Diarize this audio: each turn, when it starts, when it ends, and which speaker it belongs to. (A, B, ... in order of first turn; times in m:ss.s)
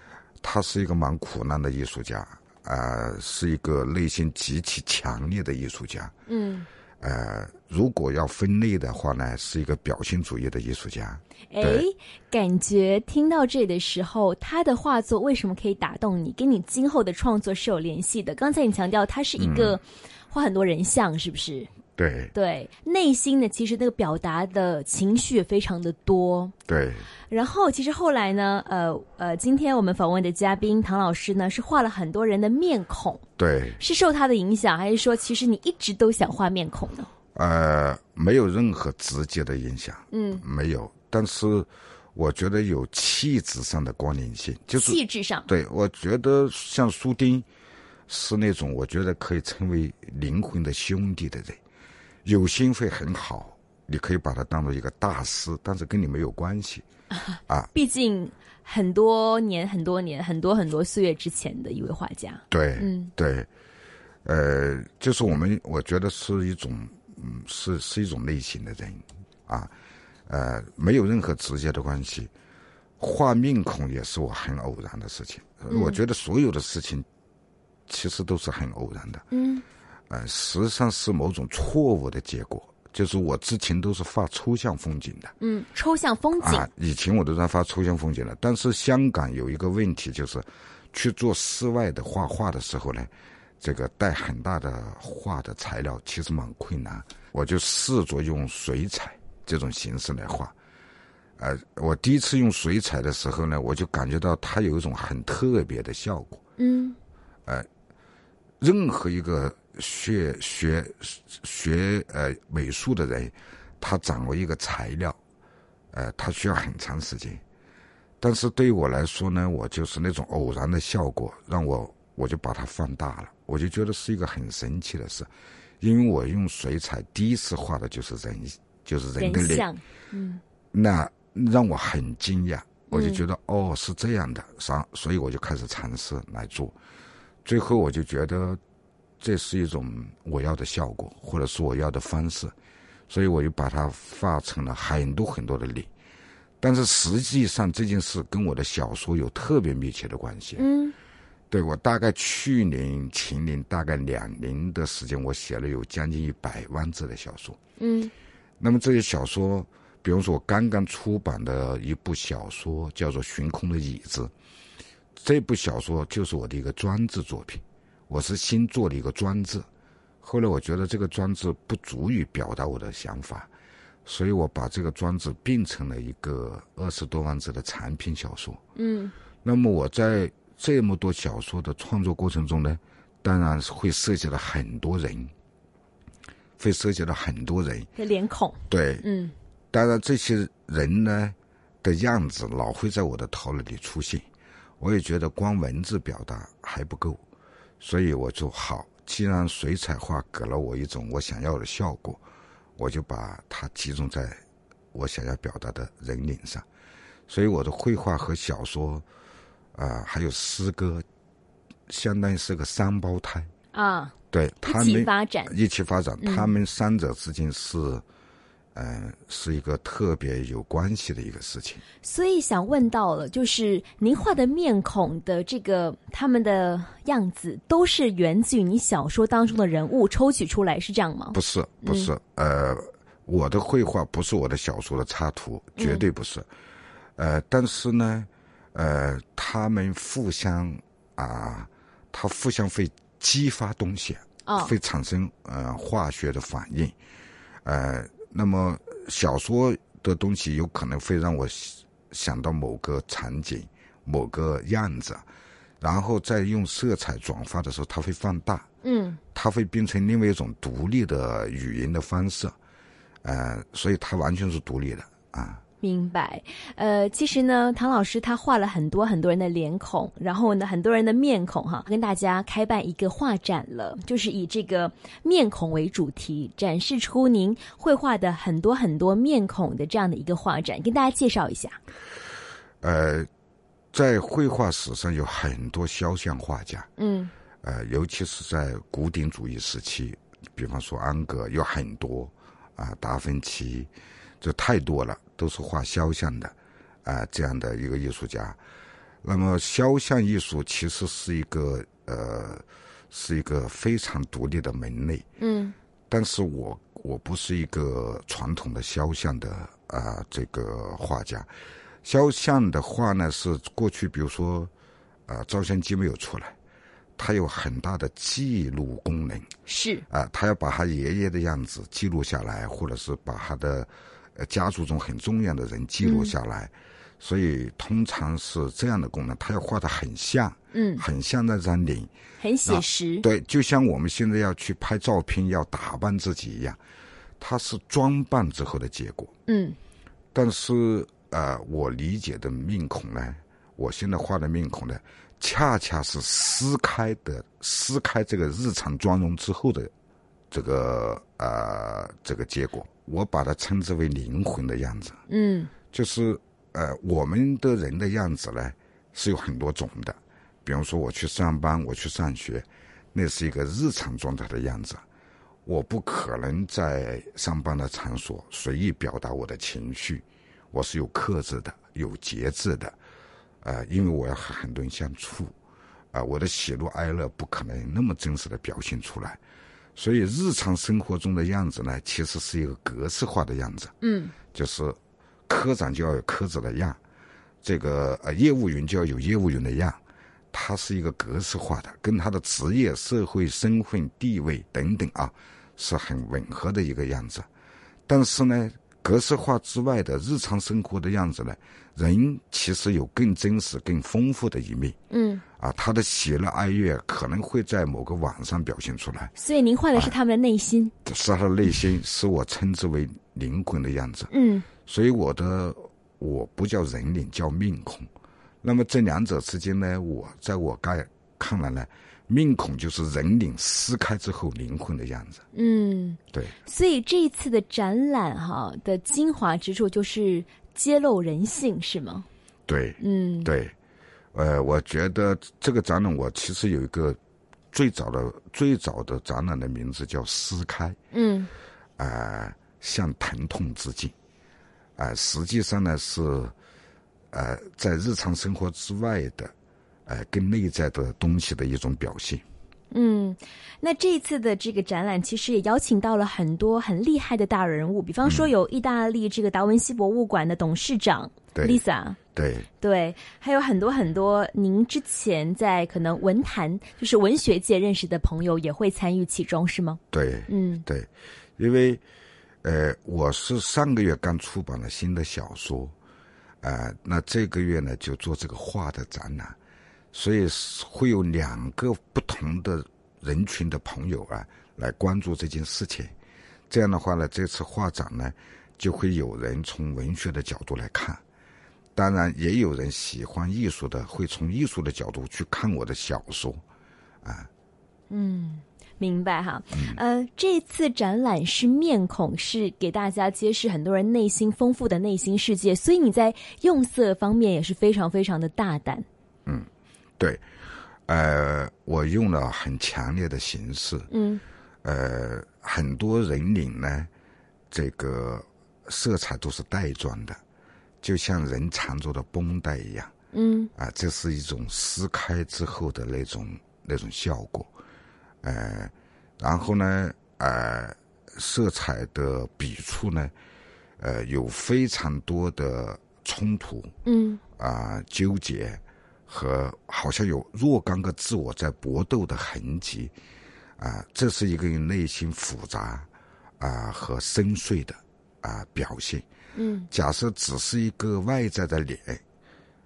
0:00.4-0:06.1 A
0:06.3-0:06.7 B
0:07.0-0:11.9 A
0:11.5-0:21.7 B
0:19.4-0:19.8 A
0:22.0-0:22.3 A
0:22.3-0:26.5 B
0:26.7-0:27.1 A
0:27.3-0:33.2 B
0:33.4-0:33.8 A
0:33.8-0:37.1 B
0:37.4-0:47.5 A
0:40.1-0:40.4 B
0:44.8-0:45.5 B
0:48.1-0:51.6 A
0:52.2-0:56.8 A
0:57.2-1:03.1 B
1:02.5-1:03.5 A
1:04.2-1:09.7 A
1:10.3-1:12.3 A
1:13.0-1:17.1 A
1:15.7-1:16.0 B
1:17.9-1:19.2 A
1:19.3-1:19.6 B
1:20.1-1:25.3 A
1:25.4-1:26.7 B
1:26.4-1:40.5 A
1:41.4-1:46.4 A
1:46.6-1:47.0 B
1:48.6-1:55.2 A
1:55.9-1:57.4 A
1:58.2-2:05.3 A
2:05.8-2:09.7 A
2:09.2-2:10.4 B
2:10.7-2:16.8 A
2:12.9-2:13.2 B
2:17.4-2:18.6 A
2:19.2-2:22.5 A
2:23.1-2:25.9 A
2:26.6-2:30.6 A
2:30.6-2:31.0 B
2:31.5-2:37.6 A
2:37.8-2:38.1 B
2:38.6-2:44.3 A
2:45.2-2:49.7 A
2:50.2-2:53.5 A
2:54.0-2:58.6 A
2:58.8-2:59.2 B
2:59.4-3:05.3 A
3:06.6-3:07.9 A
3:08.0-3:09.3 B
3:08.7-3:09.1 A
3:09.7-3:14.2 A
3:14.8-3:17.2 A
3:17.8-3:22.2 A
3:22.8-3:24.4 A
3:24.9-3:26.6 A
3:27.3-3:29.0 A
3:29.8-3:31.0 A
3:31.9-3:33.5 A
3:33.7-3:35.6 B
3:34.3-3:38.0 A
3:36.2-3:36.5 B
3:38.8-3:41.8 A
3:42.0-3:52.1 B
3:51.3-3:56.5 A
3:55.8-3:56.0 B
3:57.2-4:07.0 A
4:04.5-4:04.7 B
4:07.6-4:15.2 A
4:15.8-4:18.7 A
4:18.8-4:19.2 B
4:19.4-4:22.6 A
4:23.2-4:25.6 A
4:25.8-4:41.8 B
4:42.8-4:43.3 A
4:43.9-4:46.9 A
4:47.0-4:47.3 B
4:47.6-4:53.9 A
4:54.4-4:58.6 A
4:59.2-5:05.3 A
5:05.4-5:05.8 B
5:06.1-5:11.5 A
5:12.0-5:14.7 A
5:15.3-5:16.6 A
5:17.2-5:19.5 A
5:19.7-5:20.0 B
5:20.1-5:32.1 A
5:26.0-5:26.3 B
5:30.7-5:31.0 B
5:32.4-5:33.3 B
5:32.6-5:36.8 A
5:37.4-5:39.3 A
5:39.5-5:39.8 B
5:40.4-5:49.9 A
5:50.5-5:55.2 A
5:55.3-5:55.7 B
5:55.9-6:05.0 A
6:05.7-6:13.0 A
6:13.6-6:15.5 A
6:16.1-6:19.4 A
6:20.0-6:23.9 A
6:24.0-6:24.4 B
6:24.5-6:27.0 A
6:27.6-6:30.0 A
6:30.5-6:37.5 A
6:38.1-6:45.0 A
6:45.1-6:45.4 B
6:45.6-6:49.3 A
6:49.4-6:50.9 B
6:51.0-6:54.3 A
6:54.3-6:54.7 B
6:54.9-6:58.1 A
6:58.6-7:05.4 A
7:05.5-7:12.3 B
7:12.7-7:13.7 A
7:13.0-7:13.5 B
7:14.3-7:17.2 A
7:17.7-7:21.0 A
7:21.1-7:21.5 B
7:22.0-7:24.1 A
7:25.0-7:26.5 A
7:27.3-7:29.5 A
7:30.1-7:32.4 A
7:32.9-7:42.2 B
7:38.2-7:38.5 A
7:41.6-7:41.8 A
7:42.4-7:42.7 A
7:42.8-7:50.8 B
7:50.1-7:52.0 A
7:52.6-7:55.9 A
7:56.6-7:59.6 A
8:00.1-8:06.1 A
8:06.7-8:11.2 A
8:12.0-8:16.6 A
8:17.2-8:17.5 A
8:18.1-8:29.1 B
8:19.7-8:20.0 A
8:31.1-8:34.1 A
8:34.1-8:34.4 B
8:34.8-8:37.1 A
8:37.7-8:40.4 A
8:41.0-8:43.1 A
8:43.3-8:43.7 B
8:43.8-8:47.7 A
8:48.4-8:53.3 A
8:54.0-8:56.9 A
8:57.0-8:57.4 B
8:57.6-9:03.1 A
9:03.8-9:06.1 A
9:06.6-9:09.2 A
9:09.6-9:09.9 B
9:09.9-9:12.2 A